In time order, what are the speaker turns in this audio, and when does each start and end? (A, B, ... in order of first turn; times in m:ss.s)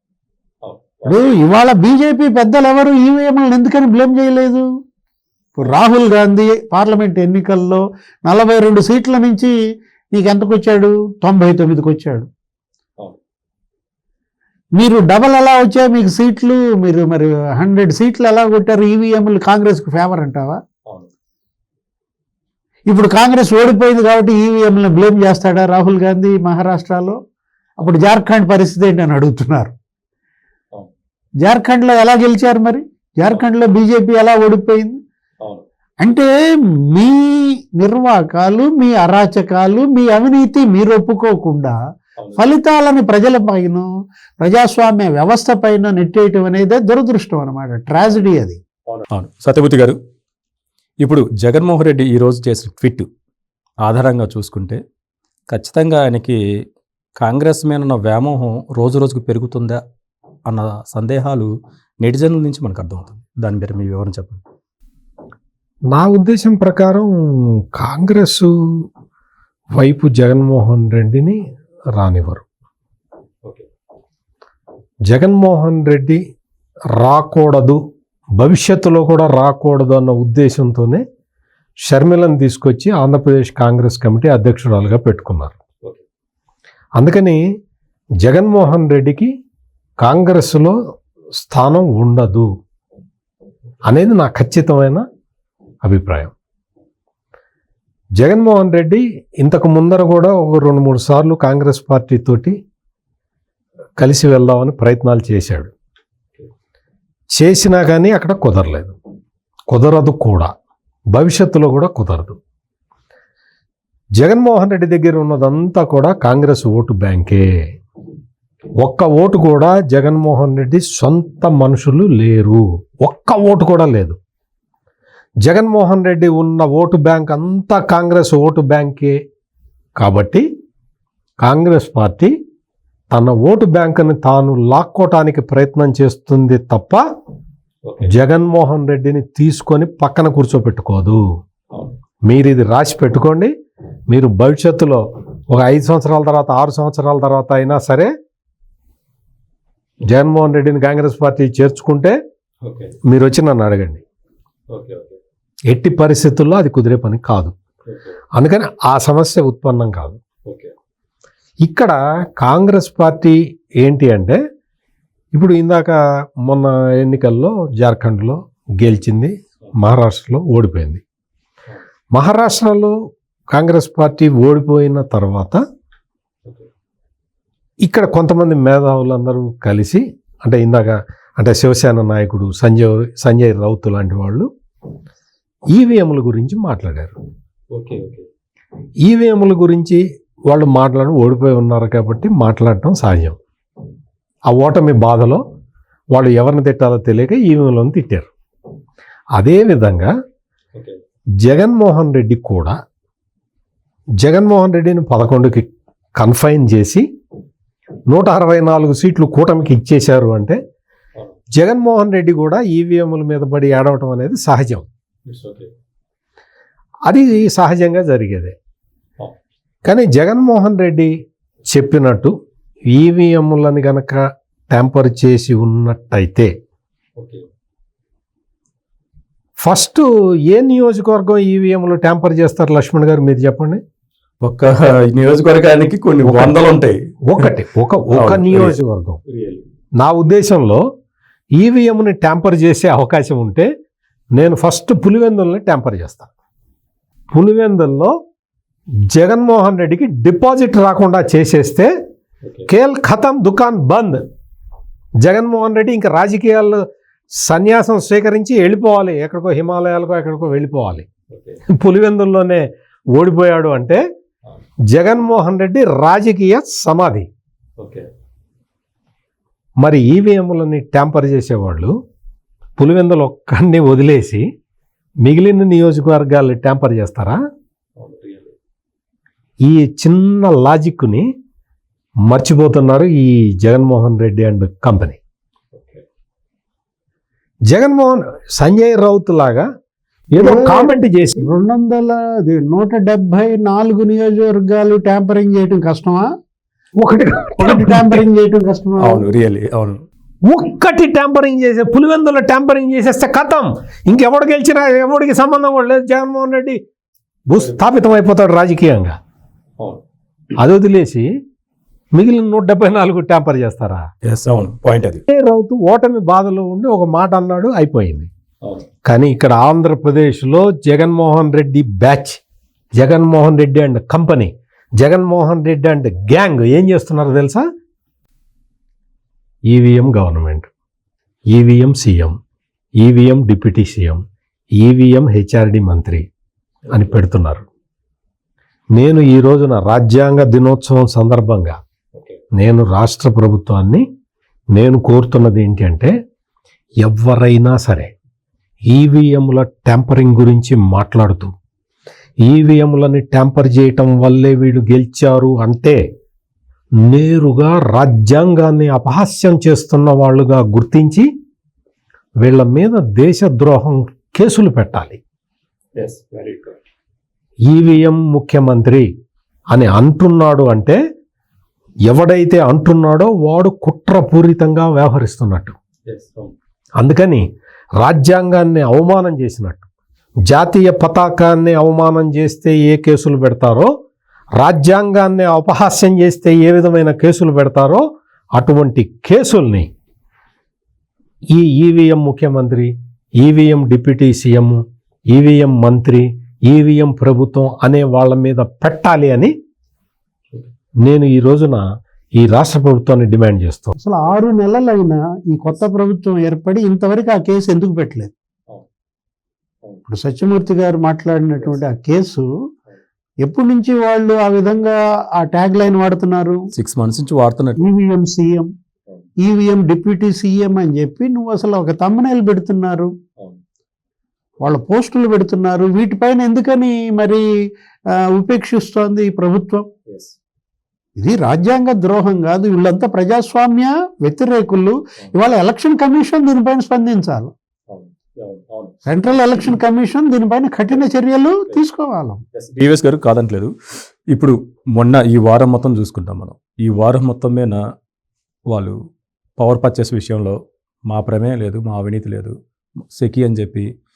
0:00.6-0:01.2 A
0:01.0-0:04.6 B
0:05.6-0:09.5 B
0:10.1-0:12.3 B
0:14.8-0:20.6 B
0:22.9-0:27.2 B
0:27.8-0:29.7 B
0:31.4-0:35.0 B
0:36.0-0:36.3 B
0:36.9-0:41.8 B
0:42.4-0:43.8 B
0:44.4-0:48.6 B
0:48.9-0:50.0 A
0:51.0-0:53.1 A
0:53.8-0:54.8 A
0:55.5-0:56.4 A
0:57.2-0:59.8 A
1:00.5-1:01.5 A
1:02.0-1:04.4 A
1:05.9-1:08.8 C
1:09.7-1:11.4 C
1:12.0-1:12.4 C
1:15.1-1:16.2 C
1:17.0-1:17.8 C
1:18.4-1:21.0 C
1:21.8-1:25.6 C
1:27.0-1:27.4 C
1:28.2-1:29.3 C
1:30.0-1:30.8 C
1:31.4-1:32.5 C
1:33.9-1:35.0 C
1:35.8-1:36.3 C
1:38.2-1:42.6 C
1:44.0-1:45.7 C
1:47.4-1:49.0 C
1:49.7-1:50.5 C
1:51.1-1:52.4 C
1:54.2-1:57.5 C
1:58.8-2:04.2 C
2:05.4-2:09.2 C
2:10.0-2:10.5 C
2:11.4-2:12.3 C
2:13.1-2:17.0 C
2:17.8-2:18.1 A
2:18.1-2:21.2 C
2:22.2-2:23.5 C
2:24.1-2:28.1 C
2:30.1-2:32.2 C
2:32.6-2:33.0 A
2:33.0-2:34.0 C
2:34.7-2:35.2 A
2:35.7-2:37.5 C
2:37.8-2:38.1 A
2:38.3-2:40.2 C
2:40.4-2:40.7 A
2:41.6-2:44.4 C
2:45.3-2:51.0 C
2:52.1-2:53.0 C
2:53.5-2:55.6 C
2:57.8-3:04.5 C
3:05.7-3:07.1 C
3:07.7-3:08.2 A
3:09.0-3:13.4 C
3:14.5-3:15.4 C
3:16.1-3:18.3 C
3:19.4-3:20.1 C
3:21.4-3:22.8 C
3:24.2-3:27.0 C
3:28.1-3:30.6 C
3:31.6-3:34.9 C
3:35.2-3:35.7 A
3:37.1-3:38.6 C
3:39.8-3:41.1 C
3:41.7-3:42.3 C
3:42.9-3:46.5 C
3:47.2-3:47.4 A
3:49.6-3:53.8 C
3:54.4-3:57.5 A
3:56.2-3:56.6 C
3:57.2-3:59.2 C
3:58.1-3:59.6 A
4:00.0-4:00.8 C
4:01.6-4:03.7 C
4:04.4-4:06.3 C
4:07.3-4:08.1 C
4:09.1-4:11.9 C
4:12.4-4:12.7 A
4:12.7-4:14.2 C
4:15.2-4:16.8 C
4:17.4-4:21.0 C
4:21.3-4:21.6 A
4:21.7-4:24.0 C
4:24.9-4:27.3 C
4:27.8-4:28.1 A
4:29.8-4:32.0 C
4:32.8-4:34.5 C
4:35.2-4:37.4 C
4:38.0-4:38.5 A
4:39.6-4:41.3 C
4:42.2-4:45.2 C
4:45.7-4:46.0 A
4:47.7-4:49.7 C
4:50.3-4:51.5 C
4:50.4-4:56.3 B
4:57.0-4:58.2 C
4:57.6-4:59.2 B
4:59.0-5:00.0 A
5:00.4-5:06.8 C
5:07.5-5:09.2 C
5:10.6-5:11.3 C
5:12.1-5:14.1 C
5:14.2-5:15.2 A
5:15.3-5:18.3 C
5:19.0-5:22.4 C
5:23.0-5:27.6 C
5:29.7-5:30.7 C
5:31.5-5:32.4 C
5:33.0-5:34.2 C
5:34.8-5:36.3 C
5:36.9-5:37.6 C
5:38.9-5:41.8 C
5:42.5-5:44.0 C
5:44.7-5:46.1 C
5:47.0-5:48.1 C
5:48.9-5:51.5 C
5:52.4-5:56.0 C
5:57.0-6:01.3 C
6:02.4-6:05.2 C
6:06.0-6:06.8 A
6:07.7-6:09.1 C
6:09.7-6:11.0 C
6:12.1-6:15.8 C
6:16.1-6:16.5 A
6:17.0-6:17.5 C
6:18.0-6:19.8 C
6:20.5-6:23.9 C
6:24.6-6:29.9 C
6:31.5-6:39.5 C
6:41.0-6:44.0 C
6:44.0-6:48.3 B
6:50.1-6:52.5 B
6:53.4-6:56.7 B
6:56.7-6:57.8 A
6:57.8-6:58.7 B
6:59.4-7:03.1 B
7:04.6-7:07.4 B
7:08.3-7:09.9 B
7:10.1-7:10.3 A
7:11.2-7:17.5 B
7:17.9-7:18.9 A
7:19.0-7:22.4 B
7:22.5-7:23.7 A
7:24.3-7:27.8 A
7:28.7-7:29.0 A
7:29.6-7:32.5 A
7:33.1-7:33.9 A